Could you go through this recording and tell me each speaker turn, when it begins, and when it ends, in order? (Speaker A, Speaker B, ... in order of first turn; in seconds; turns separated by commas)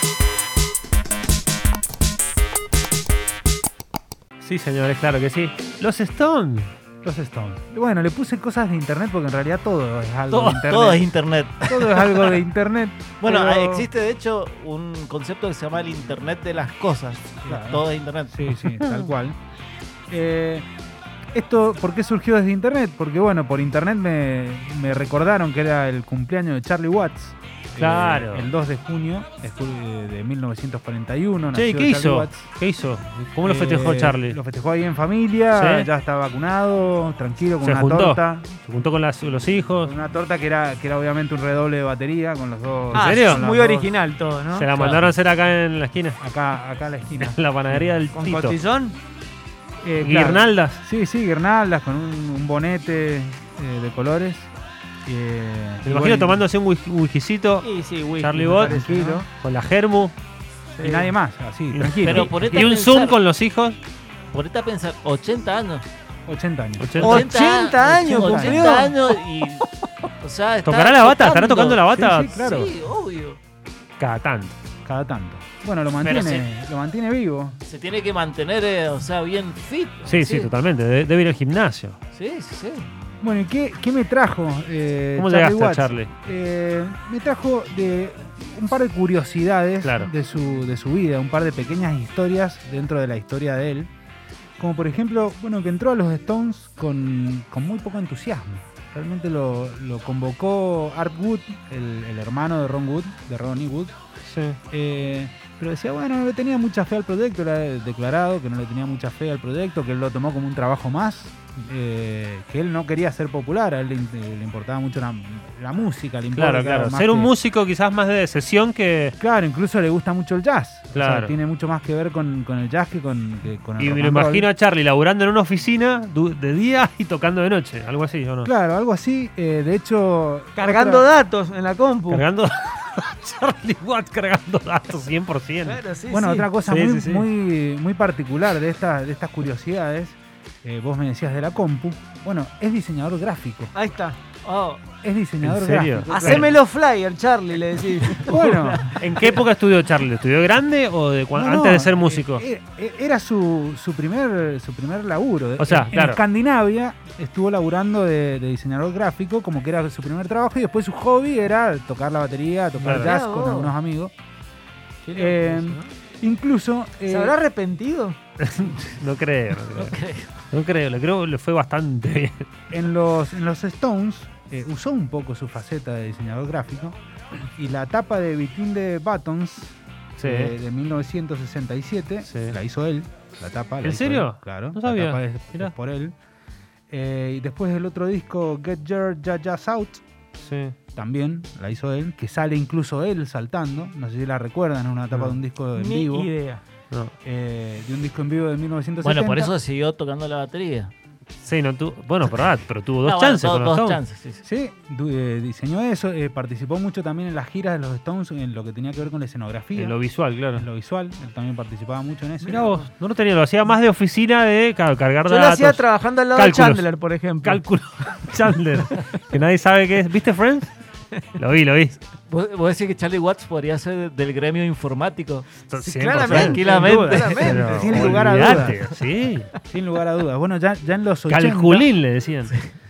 Speaker A: 4.4-6.7, Speaker B: 7.0-11.1, Speaker A: 10.3-10.9, Speaker C: 10.7-12.4, Speaker B: 11.7-13.9, Speaker C: 13.2-18.5, Speaker B: 17.4-19.4, Speaker A: 18.8-19.0, Speaker B: 20.1-20.7, Speaker B: 21.3-32.5, Speaker A: 27.7-28.5, Speaker A: 31.5-34.4, Speaker B: 33.4-38.5, Speaker A: 35.5-35.9, Speaker A: 37.6-39.9, Speaker B: 39.8-43.9, Speaker D: 42.9-45.1, Speaker A: 42.9-43.4, Speaker A: 44.5-46.2, Speaker B: 46.2-47.9, Speaker A: 47.2-48.6, Speaker D: 48.1-49.0, Speaker B: 49.8-54.5, Speaker A: 50.0-50.8, Speaker B: 55.0-56.4, Speaker A: 55.8-58.8, Speaker D: 57.6-59.2, Speaker B: 58.5-59.3, Speaker A: 59.3-60.1, Speaker D: 60.8-61.1, Speaker B: 60.8-62.5, Speaker A: 61.7-63.8, Speaker C: 62.0-63.2, Speaker C: 64.3-65.8, Speaker B: 66.3-67.1, Speaker A: 66.8-67.2, Speaker D: 67.0-69.1, Speaker C: 67.0-69.6, Speaker B: 67.8-68.7, Speaker C: 70.2-73.4, Speaker A: 70.6-72.3, Speaker B: 71.9-72.7, Speaker A: 74.0-74.5, Speaker B: 74.8-77.6, Speaker C: 76.0-76.5, Speaker C: 77.7-80.5, Speaker A: 80.0-82.0, Speaker C: 82.1-82.9, Speaker B: 83.2-93.9, Speaker A: 85.2-86.1, Speaker A: 89.8-90.1, Speaker B: 94.6-103.9, Speaker A: 104.2-104.6, Speaker B: 104.7-117.3, Speaker A: 116.3-119.2, Speaker B: 119.2-124.5, Speaker A: 120.9-121.3, Speaker A: 123.8-128.5, Speaker B: 128.4-131.1, Speaker D: 130.6-132.2, Speaker A: 132.1-135.8, Speaker D: 135.6-136.5, Speaker B: 136.1-143.7, Speaker A: 136.6-137.2, Speaker D: 143.7-144.2, Speaker C: 144.4-144.8, Speaker B: 145.0-146.6, Speaker A: 145.4-146.5, Speaker D: 146.1-148.9, Speaker B: 148.2-148.9, Speaker A: 148.9-152.4, Speaker B: 151.3-164.1, Speaker A: 155.6-156.2, Speaker D: 162.8-163.7, Speaker A: 162.9-163.1, Speaker D: 165.0-165.9, Speaker B: 165.1-167.4, Speaker D: 167.1-168.2, Speaker A: 168.4-169.9, Speaker C: 169.7-170.4, Speaker A: 170.5-172.4, Speaker B: 172.7-176.9, Speaker B: 177.6-186.1, Speaker A: 180.2-180.5, Speaker A: 182.2-182.6, Speaker A: 183.8-185.7, Speaker B: 186.9-190.0, Speaker A: 190.4-190.7, Speaker B: 190.9-196.3, Speaker A: 195.1-195.4, Speaker D: 195.7-196.6, Speaker B: 197.2-199.5, Speaker C: 199.0-200.9, Speaker A: 201.4-204.0, Speaker C: 203.0-204.4, Speaker B: 204.4-210.0, Speaker A: 209.7-210.6, Speaker B: 210.5-212.7, Speaker A: 212.4-220.7, Speaker D: 215.2-217.6, Speaker A: 221.3-222.0, Speaker C: 222.3-225.5, Speaker A: 225.7-229.5, Speaker D: 225.8-228.6, Speaker C: 226.1-227.7, Speaker B: 227.7-228.8, Speaker B: 229.7-231.9, Speaker A: 231.3-232.5